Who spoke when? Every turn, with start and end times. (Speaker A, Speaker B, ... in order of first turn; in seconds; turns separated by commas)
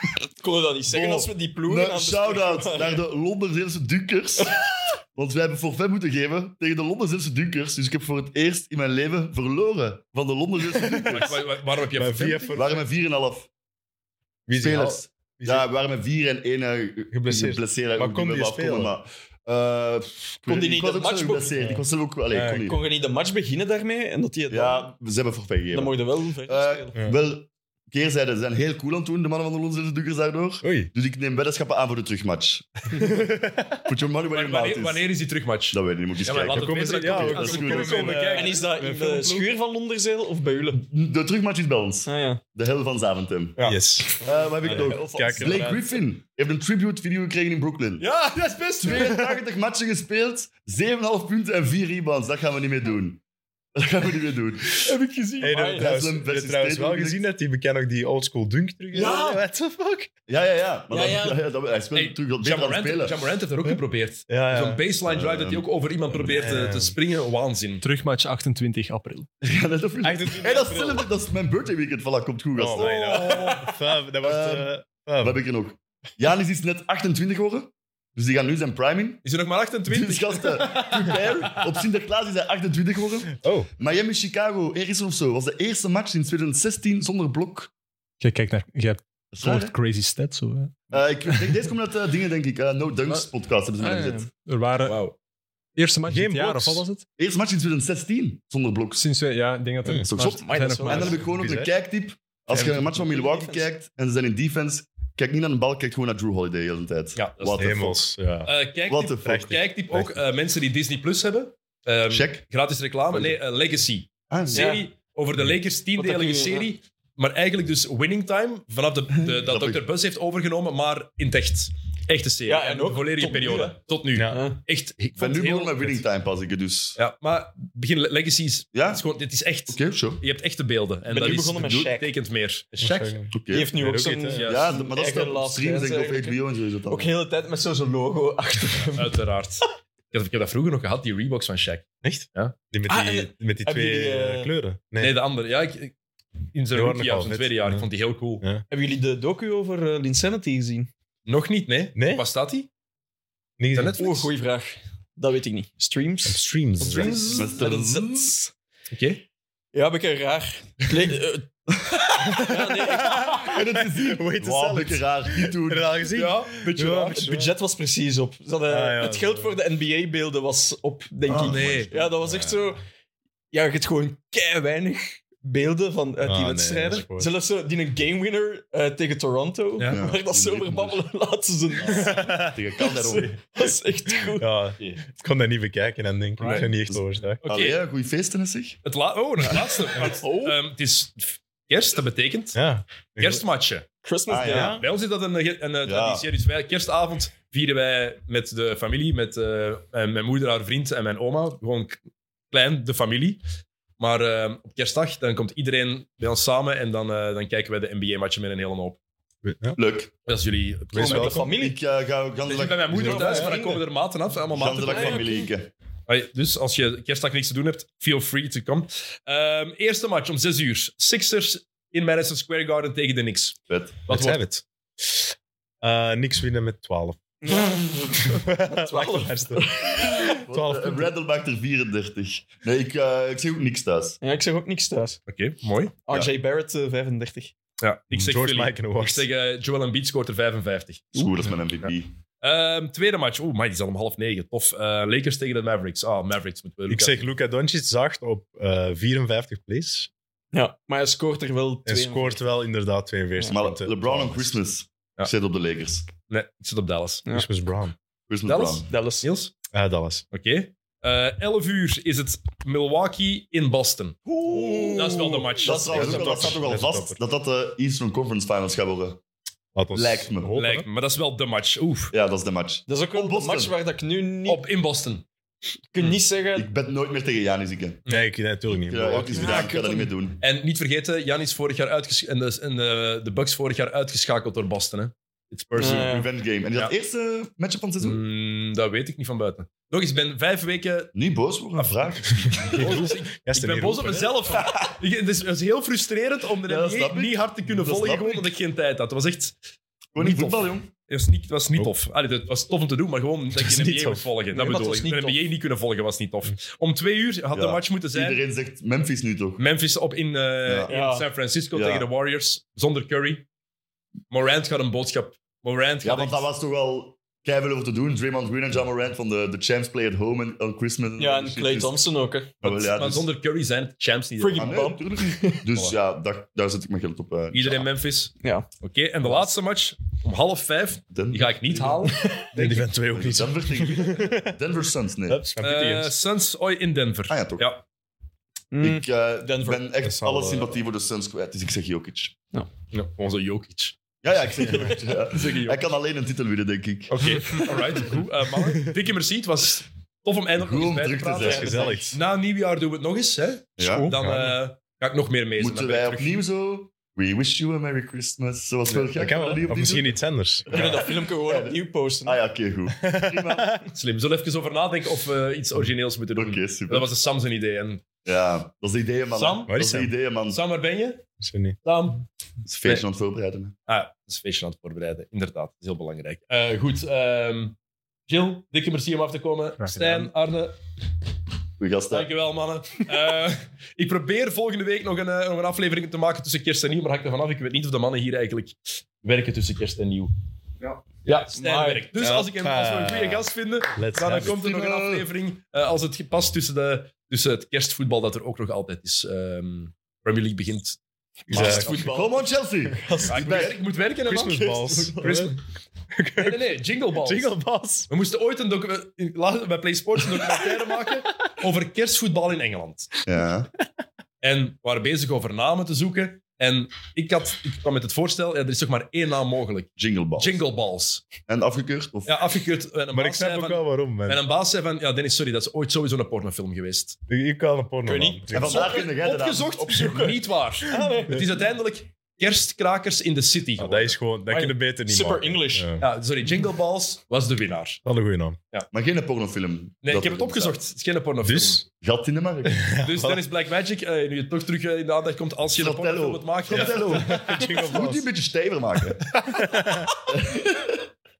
Speaker A: 0.4-3.0, Speaker B: 0.9-4.6, Speaker B: 5.1-11.4, Speaker C: 10.7-11.3, Speaker D: 11.1-12.6, Speaker C: 11.9-12.8, Speaker B: 12.5-13.5, Speaker C: 14.5-15.7, Speaker B: 14.5-22.8, Speaker C: 17.1-18.9, Speaker A: 20.4-21.7, Speaker C: 21.6-22.7, Speaker A: 22.6-24.9, Speaker B: 24.5-35.0, Speaker A: 25.7-27.0, Speaker C: 30.6-30.9, Speaker C: 32.9-33.8, Speaker D: 34.3-38.6, Speaker B: 35.7-38.3, Speaker C: 36.5-39.5, Speaker A: 38.3-40.8, Speaker B: 40.8-43.6, Speaker A: 42.0-42.4, Speaker A: 43.6-45.8, Speaker C: 43.6-45.8, Speaker B: 44.2-48.0, Speaker D: 48.0-49.2, Speaker B: 48.8-53.2, Speaker C: 48.9-49.4, Speaker B: 53.7-54.9, Speaker D: 54.8-55.7, Speaker C: 55.4-60.1, Speaker A: 55.4-55.8, Speaker B: 55.5-57.2, Speaker A: 58.9-59.4, Speaker B: 60.3-63.2, Speaker A: 60.9-61.4, Speaker D: 61.9-67.8, Speaker C: 64.3-64.8, Speaker B: 65.1-66.5, Speaker C: 66.3-67.0, Speaker E: 67.8-69.3, Speaker B: 69.4-73.7, Speaker C: 70.0-71.1, Speaker C: 72.5-75.4, Speaker D: 72.7-73.7, Speaker B: 74.2-74.7, Speaker B: 75.2-79.2, Speaker D: 79.2-81.1, Speaker B: 79.9-87.7, Speaker C: 83.4-83.7, Speaker E: 88.2-90.9, Speaker B: 89.3-89.7, Speaker B: 90.9-94.3, Speaker E: 93.8-95.1, Speaker D: 94.8-95.1, Speaker E: 95.8-97.0, Speaker C: 96.1-96.8, Speaker B: 97.2-99.0, Speaker E: 99.0-101.3, Speaker B: 100.0-108.0, Speaker A: 100.2-101.2, Speaker C: 101.0-101.7, Speaker A: 102.5-103.7, Speaker D: 107.2-107.9, Speaker C: 107.6-108.5, Speaker D: 108.4-126.0, Speaker B: 108.9-109.4, Speaker C: 109.2-110.2, Speaker B: 112.1-112.4, Speaker B: 114.3-114.7, Speaker A: 114.5-114.8, Speaker A: 116.0-116.7, Speaker B: 119.2-119.8, Speaker A: 122.5-124.6, Speaker C: 124.1-124.4, Speaker B: 125.2-127.0, Speaker D: 127.0-133.2, Speaker B: 128.7-129.0, Speaker B: 129.7-130.2, Speaker A: 131.1-132.1, Speaker B: 131.2-131.9, Speaker C: 132.8-134.5, Speaker B: 133.3-133.8, Speaker A: 133.5-139.2, Speaker D: 134.3-134.8, Speaker B: 134.4-137.1, Speaker D: 138.9-142.5, Speaker C: 142.0-145.2, Speaker A: 142.9-144.5, Speaker D: 145.0-145.9, Speaker D: 146.5-148.4, Speaker C: 146.7-147.9, Speaker A: 148.7-150.9, Speaker D: 151.2-152.7, Speaker C: 151.9-152.2, Speaker C: 153.6-154.0, Speaker D: 153.7-154.3, Speaker A: 154.0-158.5, Speaker C: 156.2-157.4, Speaker D: 156.9-157.5, Speaker B: 157.3-158.4, Speaker D: 158.9-159.2, Speaker A: 159.7-163.3, Speaker C: 162.3-167.5, Speaker B: 163.3-165.9, Speaker D: 166.1-167.2, Speaker A: 167.1-172.8, Speaker C: 168.7-169.6, Speaker B: 171.3-172.0, Speaker D: 171.4-171.9, Speaker C: 172.0-172.7, Speaker A: 173.5-184.5, Speaker C: 176.2-177.3, Speaker D: 179.8-180.1, Speaker B: 179.9-181.0, Speaker C: 181.8-182.6, Speaker B: 182.4-183.3, Speaker C: 184.1-187.4, Speaker D: 186.4-186.7, Speaker B: 186.9-188.8, Speaker D: 187.4-187.8, Speaker D: 188.8-192.6, Speaker A: 189.9-190.6, Speaker C: 192.5-193.4, Speaker D: 193.2-193.8, Speaker A: 194.0-194.8, Speaker B: 194.3-194.8, Speaker C: 194.4-194.8, Speaker D: 194.7-202.0, Speaker B: 195.8-196.2, Speaker D: 202.5-203.4, Speaker D: 204.0-209.0, Speaker C: 209.4-209.8, Speaker B: 209.8-210.1, Speaker D: 210.2-211.4, Speaker C: 210.9-211.5, Speaker A: 210.9-211.8, Speaker B: 211.2-213.6, Speaker D: 212.4-215.3, Speaker C: 212.9-213.8, Speaker B: 214.5-215.7, Speaker A: 214.8-215.5, Speaker D: 216.1-223.6, Speaker B: 223.7-224.0, Speaker D: 224.1-224.4, Speaker C: 224.1-225.3, Speaker C: 225.8-227.6, Speaker A: 227.4-230.4, Speaker C: 228.2-231.1, Speaker B: 230.2-234.2, Speaker A: 234.2-235.2, Speaker D: 235.3-235.9, Speaker A: 236.1-237.5, Speaker D: 237.8-241.1, Speaker C: 238.1-239.3, Speaker B: 241.1-242.1, Speaker D: 242.4-247.3, Speaker C: 246.9-250.1, Speaker A: 250.5-252.4, Speaker C: 251.8-254.6, Speaker B: 253.4-256.1, Speaker D: 256.3-257.2, Speaker C: 257.3-257.9, Speaker B: 258.3-258.9, Speaker D: 258.4-259.5, Speaker A: 258.9-259.2, Speaker C: 259.7-260.2, Speaker D: 260.3-264.2, Speaker A: 264.2-266.7, Speaker C: 264.5-265.1, Speaker D: 264.9-266.4, Speaker B: 265.6-269.2, Speaker C: 265.8-267.2, Speaker C: 269.7-270.9, Speaker B: 269.9-270.5, Speaker D: 270.5-272.1, Speaker B: 272.1-273.7, Speaker A: 272.9-274.6, Speaker D: 274.5-275.2, Speaker A: 275.9-276.7, Speaker B: 276.5-278.0, Speaker C: 278.1-279.7, Speaker B: 278.9-280.4, Speaker A: 279.2-280.1, Speaker D: 280.4-286.1, Speaker B: 285.7-288.2, Speaker A: 285.8-286.3, Speaker D: 288.0-291.1, Speaker B: 291.1-293.0, Speaker C: 292.5-294.8, Speaker D: 292.6-299.6, Speaker B: 296.7-298.5, Speaker B: 300.1-300.9, Speaker D: 300.2-308.4, Speaker C: 303.5-304.2, Speaker A: 304.5-305.4, Speaker B: 307.5-309.6, Speaker D: 309.6-313.4, Speaker B: 310.6-310.9, Speaker A: 310.9-311.3, Speaker B: 311.7-312.1, Speaker D: 314.3-316.4, Speaker B: 316.0-322.1, Speaker A: 321.2-322.5, Speaker B: 322.6-323.3, Speaker D: 322.6-324.9, Speaker A: 324.4-325.6, Speaker B: 324.5-327.9, Speaker D: 327.5-332.3, Speaker A: 328.4-328.7, Speaker B: 331.1-335.4, Speaker A: 332.2-332.5, Speaker C: 332.5-334.5, Speaker C: 335.3-336.1, Speaker D: 335.6-337.8, Speaker B: 337.3-337.7, Speaker A: 338.7-339.8, Speaker B: 338.8-342.4, Speaker C: 340.0-340.8, Speaker D: 342.9-343.9, Speaker B: 344.2-347.7, Speaker D: 345.4-345.8, Speaker D: 347.1-356.3, Speaker B: 350.6-352.1, Speaker C: 351.4-352.2, Speaker B: 353.8-354.1, Speaker A: 353.8-354.1, Speaker C: 354.2-354.6, Speaker B: 355.6-360.2, Speaker C: 358.9-361.0, Speaker B: 360.7-363.8, Speaker A: 360.7-362.4, Speaker C: 363.0-363.8, Speaker D: 363.9-368.0, Speaker B: 366.4-367.1, Speaker B: 368.2-370.6, Speaker D: 369.4-369.7, Speaker C: 369.7-370.1, Speaker D: 370.5-371.2, Speaker C: 371.4-371.8, Speaker D: 371.8-372.2, Speaker B: 372.6-373.7, Speaker D: 373.9-377.7, Speaker D: 378.3-380.8, Speaker E: 379.8-380.2, Speaker B: 381.8-382.3, Speaker D: 382.1-390.3, Speaker D: 390.8-401.0, Speaker A: 391.5-392.1, Speaker C: 392.2-394.5, Speaker B: 394.4-395.3, Speaker C: 401.5-402.1, Speaker A: 401.5-403.7, Speaker B: 401.5-403.7, Speaker D: 403.3-405.6, Speaker C: 404.2-405.6, Speaker C: 406.1-408.1, Speaker D: 406.4-407.5, Speaker D: 408.1-413.3, Speaker B: 413.2-413.7, Speaker D: 414.4-421.2, Speaker B: 420.0-420.6, Speaker B: 421.4-422.3, Speaker D: 422.2-427.2, Speaker C: 423.1-424.4, Speaker C: 427.3-428.9, Speaker A: 428.1-429.0, Speaker B: 428.5-429.7, Speaker D: 428.6-434.1, Speaker A: 429.8-431.4, Speaker C: 433.8-436.1, Speaker A: 434.5-435.9, Speaker D: 436.0-438.0, Speaker C: 438.0-438.6, Speaker B: 438.9-440.8, Speaker D: 440.0-441.8, Speaker C: 441.4-441.8, Speaker B: 442.0-442.9, Speaker C: 442.6-443.4, Speaker D: 443.0-447.8, Speaker B: 445.8-449.4, Speaker C: 446.7-448.2, Speaker C: 449.3-450.1, Speaker B: 450.2-451.0